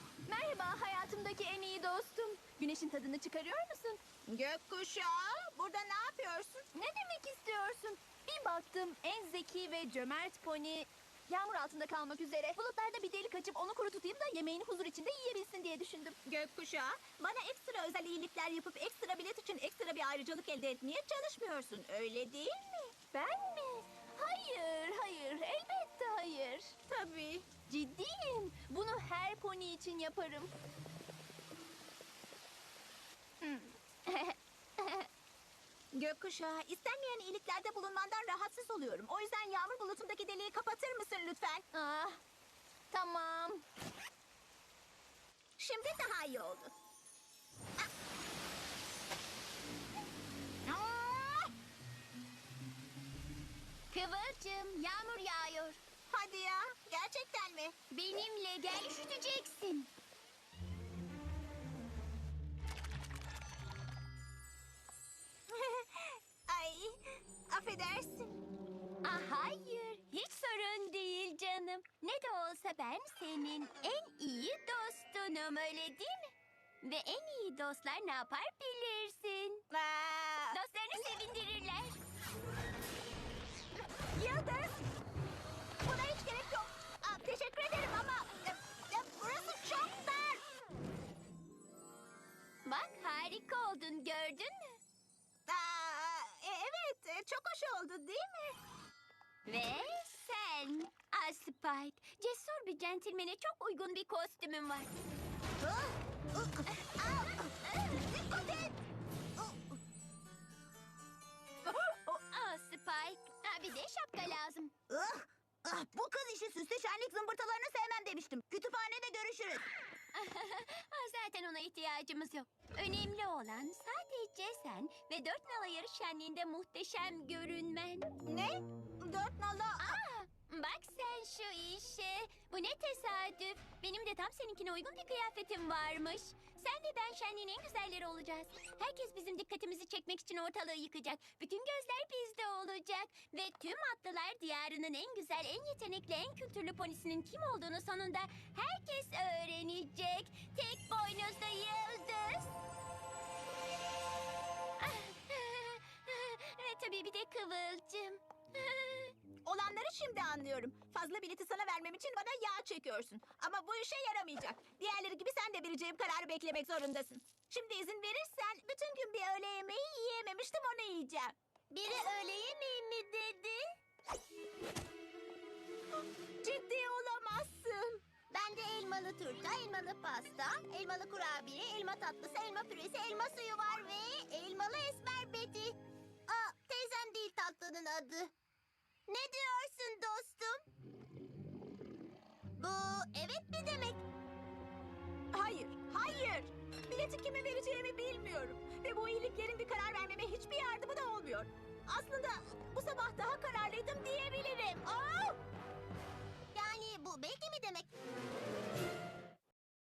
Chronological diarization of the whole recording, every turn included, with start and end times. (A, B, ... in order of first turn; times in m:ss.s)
0:00.3-0:04.0 A
0:04.3-0:06.7 B
0:06.8-0:16.2 A
0:16.2-0:22.9 B
0:23.1-0:26.7 A
0:26.9-0:27.5 B
0:27.7-0:30.5 A
0:33.4-0:35.1 A
0:35.9-0:41.6 B
0:41.7-0:42.2 A
0:42.9-0:43.6 A
0:45.6-0:46.7 B
0:50.6-0:51.5 B
0:53.9-0:55.8 A
0:56.1-0:57.8 B
0:57.9-0:59.9 A
1:05.5-1:08.4 B
1:09.0-1:19.6 A
1:19.7-1:20.6 B
1:20.5-1:22.0 A
1:24.1-1:24.8 B
1:25.8-1:30.4 B
1:32.6-1:34.8 A
1:35.5-1:38.6 B
1:39.5-1:44.9 A
1:45.6-1:47.4 C
1:47.7-1:48.0 A
1:49.4-1:49.8 C
1:52.0-1:54.7 A
1:54.9-1:59.7 C
2:00.2-2:08.1 A
2:08.3-2:10.0 B
2:09.8-2:32.6 A
2:34.8-2:39.1 A
2:39.4-2:51.4 B
2:51.7-2:53.6 D
2:56.4-2:58.0 B
2:58.3-3:05.8 D
3:06.3-3:08.3 D
3:09.1-3:10.6 D
3:12.6-3:14.0 D
3:15.3-3:25.4 B
3:26.5-3:27.9 D